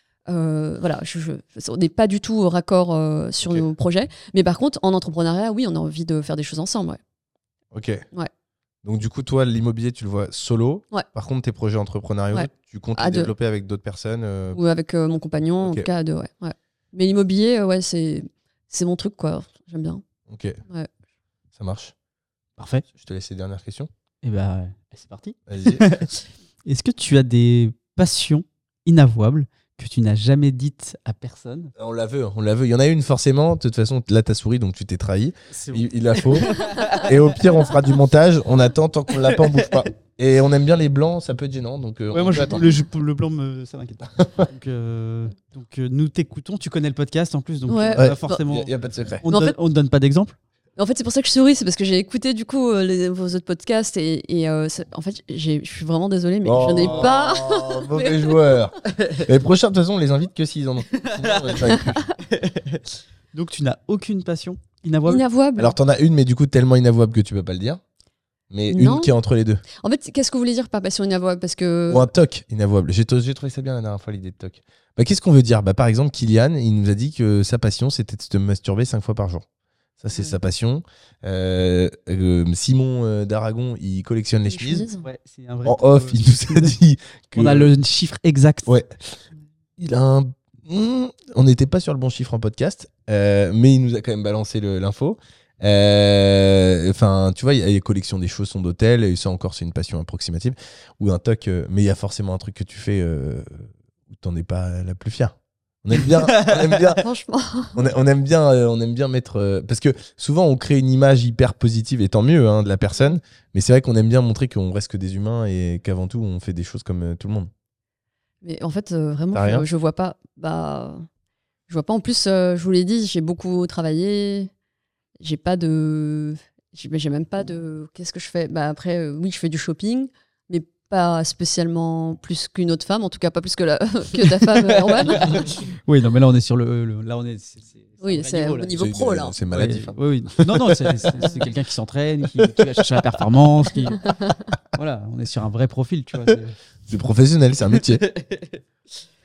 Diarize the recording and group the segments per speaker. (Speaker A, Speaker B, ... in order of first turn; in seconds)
Speaker A: 0.3-7.0, 12.3-13.3, 14.5-20.0, 47.7-48.4, 49.3-49.5, 50.8-58.6, 65.1-65.7, 68.7-69.1, 69.8-72.1, 84.5-85.0, 107.0-107.8, 118.4-121.0, 121.7-124.5, 125.2-135.6, 138.0-139.3
Speaker B: 3.4-3.7, 7.7-8.1, 8.8-14.6, 15.6-15.9, 20.3-20.6, 21.5-21.9, 22.9-23.9, 25.5-25.9, 31.8-42.6, 44.2-44.5, 47.9-49.2, 56.4-62.1, 65.6-67.8, 68.5-69.6, 71.9-79.5, 80.0-84.8, 85.6-87.7, 89.8-107.0, 107.7-117.5, 119.3-119.7, 138.7-141.1, 142.4-142.7, 146.9-148.0
Speaker C: 22.6-22.8, 24.2-31.7, 35.5-37.9, 39.2-39.7, 42.1-50.4, 61.1-61.5, 62.2-62.8, 63.3-65.2, 85.0-86.7, 87.3-88.7, 106.0-106.8, 134.2-138.8, 139.5-144.1, 144.7-146.6, 148.1-148.5